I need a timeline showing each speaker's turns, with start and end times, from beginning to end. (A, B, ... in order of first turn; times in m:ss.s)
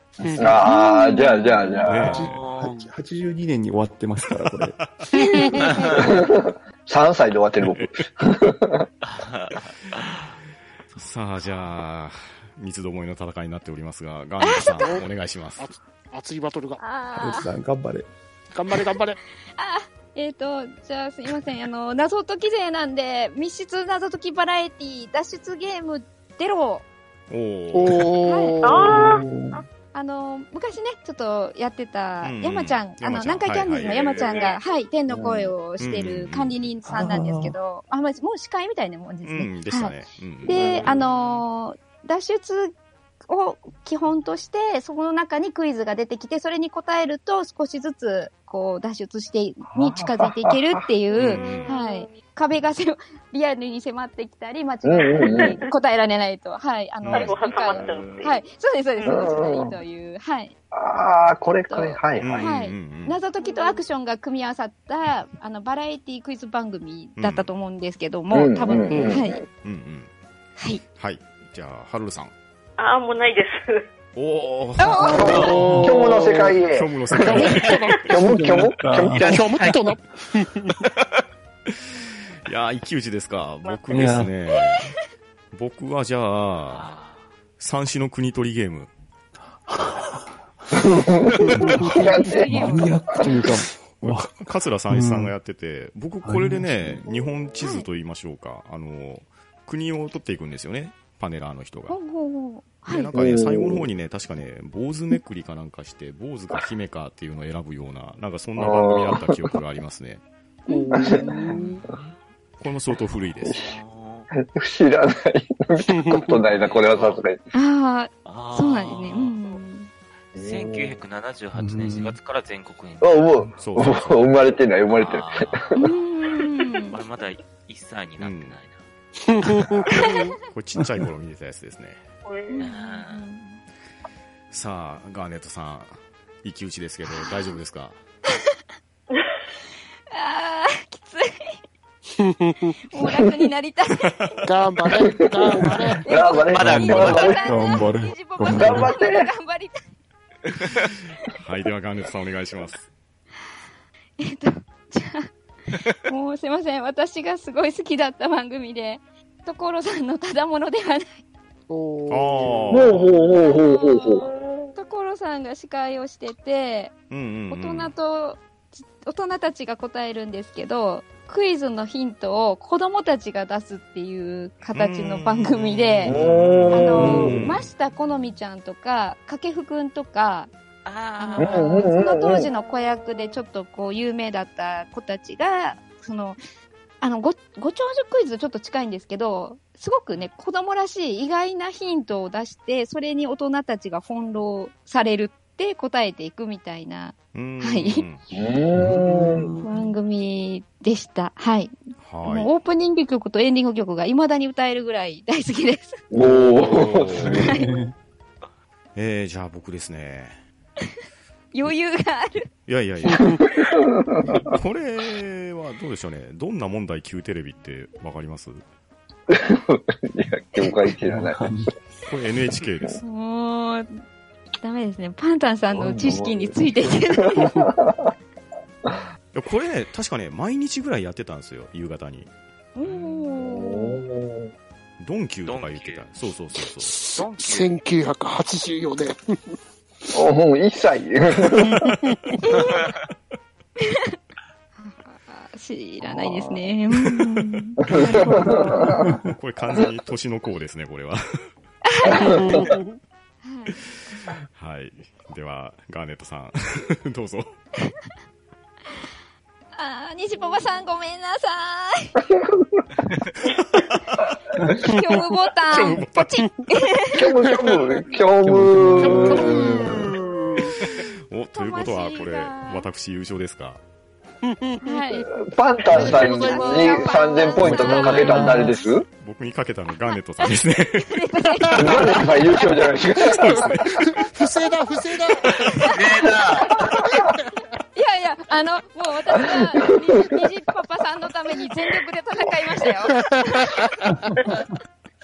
0:00.2-0:00.6 A
0:00.2-0:00.6 B
0:00.4-0:02.3 C
0:00.6-0:01.8 D
0:01.8-0:02.4 E
0:01.9-0:04.8 B
0:02.2-0:02.6 F
0:02.6-0:02.9 A
0:04.3-0:05.3 E
0:05.1-0:05.9 D
0:05.6-0:06.1 F
0:06.0-0:08.9 C
0:07.6-0:08.0 E
0:09.0-0:10.4 F
0:10.9-0:11.7 F
0:11.0-0:15.7 E
0:14.4-0:15.0 D
0:14.8-0:16.8 A
0:16.8-0:17.5 D
0:17.2-0:18.1 B
0:18.5-0:19.2 A
0:19.6-0:26.9 D
0:27.3-0:28.1 E
0:27.7-0:29.3 A
0:28.2-0:28.6 D
0:28.6-0:29.6 G
0:28.9-0:29.6 B
0:29.9-0:42.7 D
0:32.2-0:34.1 E
0:33.9-0:34.6 G
0:35.8-0:36.6 E
0:36.8-0:37.6 B
0:39.2-0:40.7 E
0:40.5-0:41.0 C
0:43.3-1:00.6 D
0:49.7-0:50.8 C
0:51.2-0:51.8 E
0:51.2-0:52.2 G
0:54.8-0:55.6 C
0:55.2-0:55.6 G
0:57.0-0:57.4 E
0:57.1-0:58.4 G
0:57.7-0:58.3 C
0:59.0-0:59.3 G
0:59.0-0:59.8 C
1:00.7-1:02.5 C
1:01.7-1:09.4 D
1:02.2-1:03.2 E
1:03.4-1:03.8 G
1:07.2-1:07.5 E
1:08.3-1:09.4 C
1:08.9-1:09.2 A
1:09.6-1:10.1 E
1:11.0-1:12.3 E
1:12.8-1:13.9 G
1:14.2-1:15.2 E
1:14.8-1:15.4 D
1:15.1-1:16.6 A
1:15.1-1:15.9 B
1:15.1-1:17.5 C
1:16.7-1:18.1 E
1:17.1-1:18.3 A
1:18.1-1:19.3 C
1:18.1-1:19.3 B
1:19.2-1:20.7 A
1:19.2-1:19.8 F
1:22.5-1:24.9 E
1:23.6-1:24.0 G
1:23.9-1:24.3 B
1:24.5-1:24.9 D
1:25.5-1:26.9 E
1:26.7-1:27.2 F
1:27.6-1:28.9 E
1:29.7-1:30.2 B
1:30.8-1:33.5 C
1:31.4-1:31.8 F
1:31.5-1:35.3 B
1:31.8-1:33.1 D
1:34.1-1:42.0 E
1:36.2-1:37.1 B
1:37.6-1:37.9 D
1:41.9-1:43.1 D
1:42.8-1:50.2 E
1:43.1-1:43.9 C
1:48.6-1:49.5 C
1:50.7-1:51.8 A
1:50.7-1:51.6 D
1:50.9-1:51.2 C
1:51.6-1:52.2 F
1:52.6-1:53.6 E
1:53.4-1:53.8 C
1:53.6-1:54.3 F
1:54.4-1:57.4 C
1:55.9-1:56.4 A
1:56.5-1:57.2 F
1:57.5-1:59.9 D
1:58.2-1:59.4 F
2:00.4-2:03.2 F
2:00.4-2:01.0 C
2:01.5-2:02.2 B
2:03.0-2:05.9 C
2:03.6-2:04.2 E
2:04.9-2:05.8 F
2:05.8-2:07.0 D
2:06.9-2:08.8 F
2:08.2-2:08.6 E
2:09.3-2:10.3 A
2:10.4-2:12.0 E
2:10.8-2:11.1 B
2:12.2-2:12.6 G
2:12.5-2:13.6 D
2:12.6-2:13.2 F
2:14.5-2:18.0 E
2:17.1-2:17.4 D
2:20.1-2:21.6 D
2:22.2-2:22.8 A
2:22.9-2:24.1 D
2:24.0-2:24.4 E
2:24.5-2:26.1 A
2:25.6-2:29.8 D
2:26.1-2:27.5 C
2:26.5-2:27.4 F
2:26.7-2:28.9 B
2:28.5-2:29.3 C
2:31.3-2:32.9 E
2:34.2-2:35.3 D
2:36.0-2:41.2 D
2:41.7-2:43.0 A
2:42.1-2:43.2 E
2:42.7-2:44.2 C
2:43.4-2:44.8 G
2:44.8-2:46.9 D
2:47.1-2:47.9 E
2:47.5-2:48.5 D
2:49.0-2:56.2 D
2:54.7-2:57.7 E
2:56.0-2:57.4 C
2:56.7-3:00.5 D
3:00.9-3:01.6 F
3:01.2-3:06.4 D
3:01.4-3:02.5 C
3:07.0-3:18.0 D
3:17.3-3:18.2 E
3:18.3-3:19.5 C
3:18.7-3:19.9 B
3:19.6-3:26.0 D
3:22.0-3:22.5 E
3:26.1-3:27.6 C
3:26.2-3:27.9 B
3:27.4-3:27.7 D
3:29.0-3:30.4 E
3:31.5-3:32.5 D
3:32.7-3:33.3 E
3:33.6-3:34.4 C
3:34.5-3:38.6 E
3:39.3-3:41.4 C
3:41.1-3:41.7 B
3:42.1-3:43.0 E
3:43.0-3:43.9 D
3:44.6-3:47.5 D
3:45.7-3:48.1 C
3:49.3-3:52.3 E
3:52.8-3:54.0 D
3:52.8-3:53.3 F
3:53.4-3:54.5 C
3:55.0-3:57.0 E
3:55.4-3:56.0 F
3:56.7-3:59.2 A
3:57.1-3:57.8 F
4:00.1-4:01.8 C
4:01.6-4:02.0 E
4:02.4-4:02.7 D
4:03.9-4:04.2 D
4:04.8-4:09.0 D
4:06.0-4:06.7 C
4:07.8-4:09.1 C
4:09.0-4:09.3 B
4:09.3-4:11.2 E
4:11.9-4:12.4 D
4:12.3-4:13.0 A
4:13.4-4:13.8 D
4:13.7-4:17.6 E
4:19.8-4:22.2 D
4:23.4-4:24.2 E
4:24.8-4:27.3 D
4:25.7-4:26.4 E
4:27.1-4:29.7 C
4:27.4-4:27.8 A
4:28.4-4:30.1 B
4:29.0-4:30.8 A
4:29.3-4:30.1 D
4:30.8-4:33.8 E
4:31.5-4:32.9 D
4:34.5-4:35.2 A
4:34.8-4:35.3 D
4:35.3-4:39.0 C
4:35.9-4:38.7 D
4:35.9-4:36.3 B
4:35.9-4:37.5 A
4:37.6-4:38.8 B
4:39.2-4:41.2 E
4:40.1-4:42.7 D
4:41.4-4:42.3 A
4:41.8-4:43.8 C
4:43.2-4:44.5 E
4:44.1-4:46.2 A
4:45.9-4:46.8 F
4:47.0-4:47.4 A
4:48.0-4:53.7 D
4:53.2-4:54.1 A